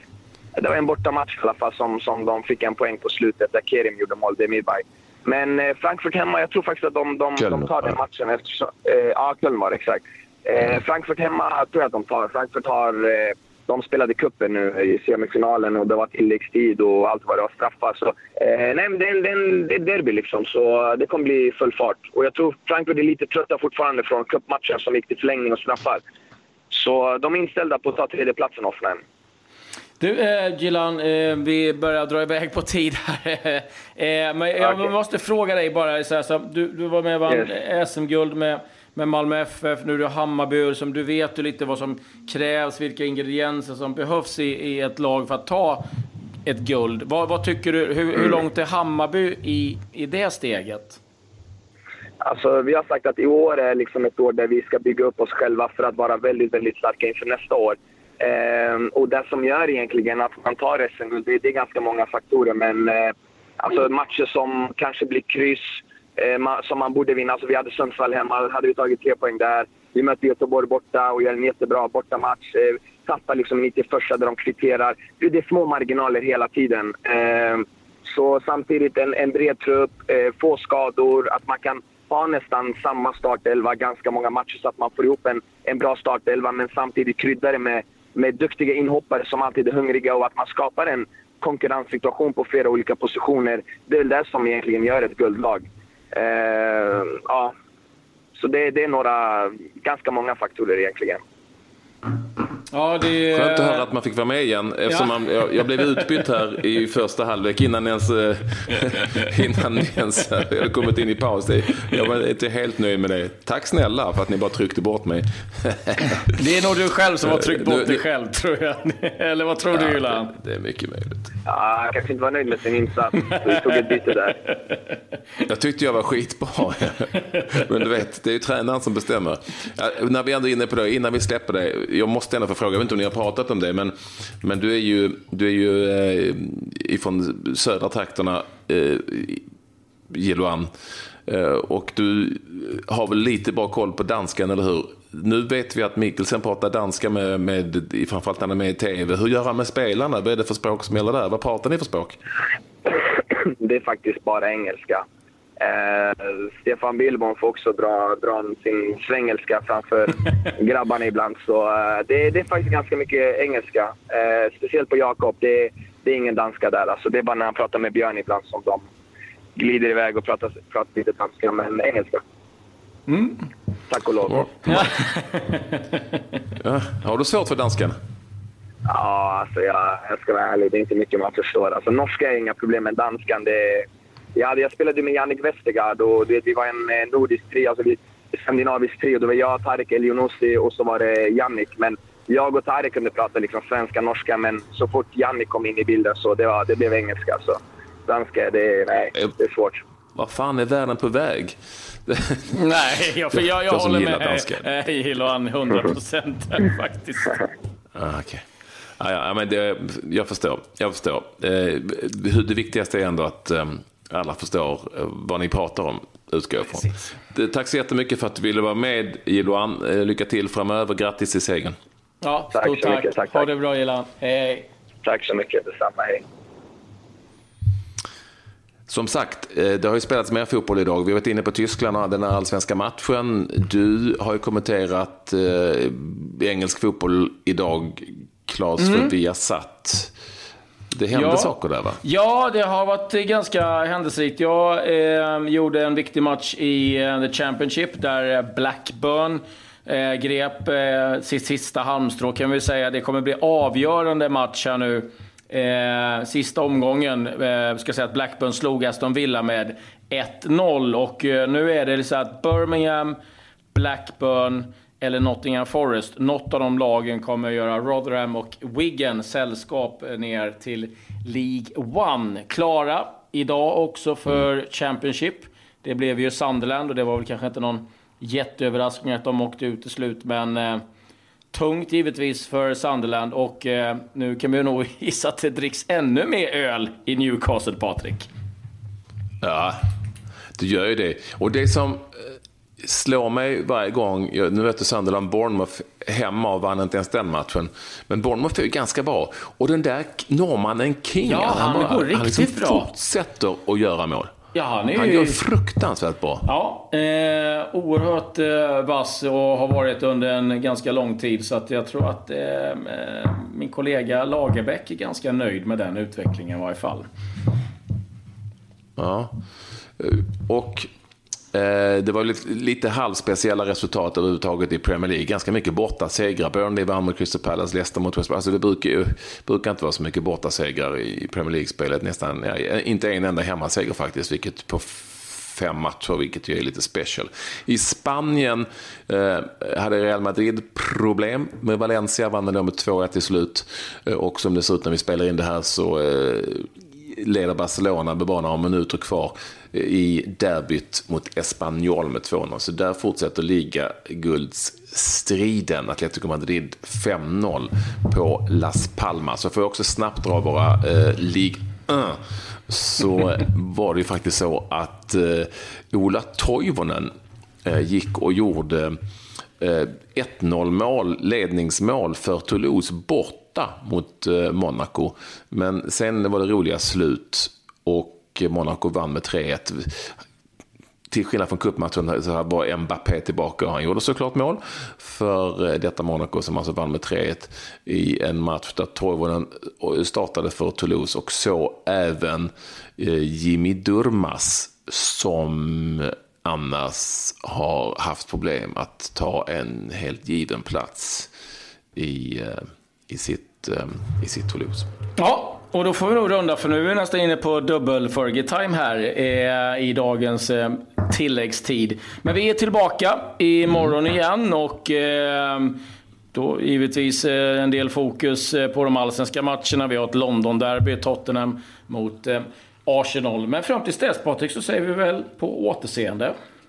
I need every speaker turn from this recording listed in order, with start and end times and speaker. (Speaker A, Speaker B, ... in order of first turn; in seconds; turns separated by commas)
Speaker A: 0.6-26.0, Speaker B: 7.4-7.7, Speaker A: 26.7-29.0, Speaker C: 30.0-45.9, Speaker C: 46.5-51.0, Speaker A: 52.2-97.5, Speaker A: 98.3-101.2, Speaker C: 102.7-103.9, Speaker B: 103.3-116.3, Speaker C: 116.3-120.3, Speaker B: 117.6-118.0, Speaker B: 119.7-121.3, Speaker A: 121.5-124.4, Speaker B: 125.4-139.4, Speaker B: 140.1-140.7, Speaker B: 141.2-152.2, Speaker A: 152.9-155.0, Speaker A: 155.6-168.8, Speaker A: 169.6-172.2, Speaker C: 173.1-173.5, Speaker A: 173.9-174.9, Speaker C: 174.7-175.8, Speaker B: 176.6-178.0, Speaker A: 178.8-199.8, Speaker B: 200.1-202.5, Speaker C: 202.5-207.4, Speaker B: 203.3-204.6, Speaker B: 207.9-208.4, Speaker B: 209.0-221.8, Speaker C: 222.2-224.7, Speaker A: 222.5-223.4, Speaker A: 225.0-226.2, Speaker B: 228.9-240.1, Speaker C: 238.8-239.1, Speaker B: 240.9-242.0, Speaker C: 241.1-263.2, Speaker C: 263.7-280.8, Speaker C: 281.5-288.3, Speaker B: 289.4-289.8, Speaker B: 290.6-304.3, Speaker C: 301.2-302.9, Speaker C: 304.5-305.4, Speaker B: 304.9-306.5, Speaker C: 306.4-317.1, Speaker B: 319.0-319.3, Speaker B: 320.0-320.9, Speaker B: 321.5-367.1, Speaker B: 367.6-369.0, Speaker B: 369.6-380.1, Speaker B: 381.1-401.3, Speaker B: 401.9-404.9, Speaker C: 405.2-415.8, Speaker C: 416.3-426.4